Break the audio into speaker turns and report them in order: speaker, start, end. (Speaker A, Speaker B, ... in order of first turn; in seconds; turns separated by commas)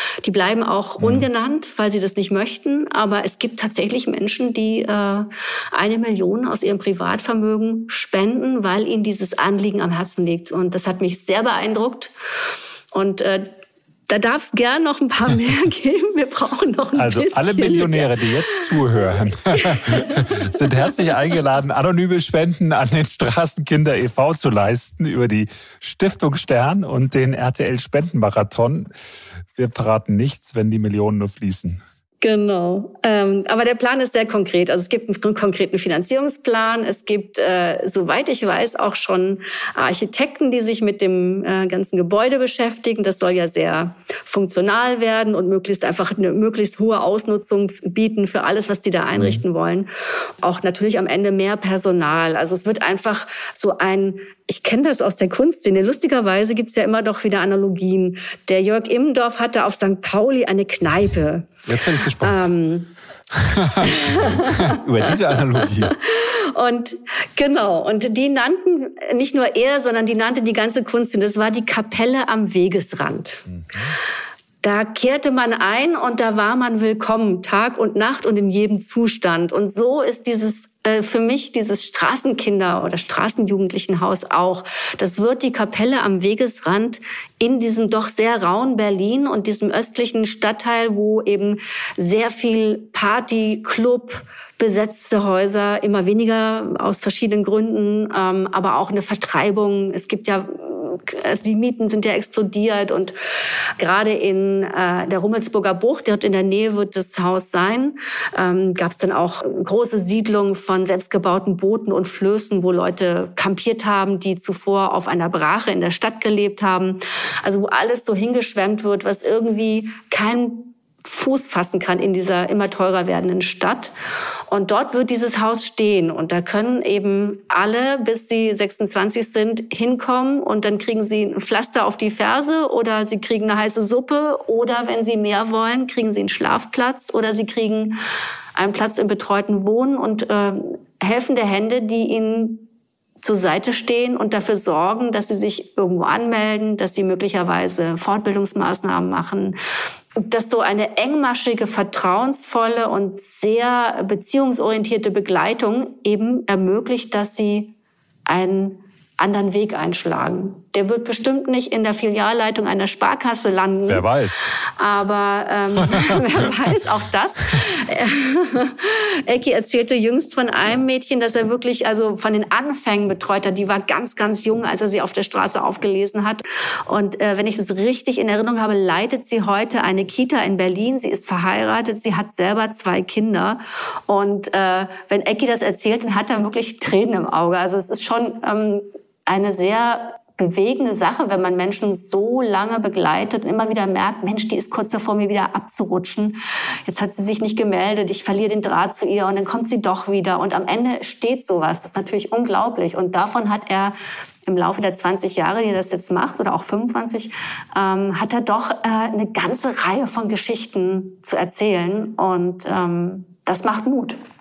Speaker A: 0.2-12.1, Speaker B: 1.0-1.3, Speaker A: 12.9-13.5, Speaker A: 14.1-20.9, Speaker B: 16.9-28.9, Speaker B: 29.6-31.8, Speaker A: 32.2-49.9, Speaker B: 49.1-49.4, Speaker A: 50.4-62.9, Speaker B: 61.7-62.5, Speaker B: 63.3-66.0, Speaker A: 63.8-64.8, Speaker A: 65.6-73.5, Speaker B: 73.5-73.9, Speaker A: 74.6-103.2, Speaker A: 103.8-123.9, Speaker A: 124.5-138.0, Speaker A: 138.6-142.7, Speaker A: 143.2-149.6, Speaker A: 150.2-157.7, Speaker A: 158.3-164.1, Speaker B: 163.9-164.5, Speaker A: 164.8-214.2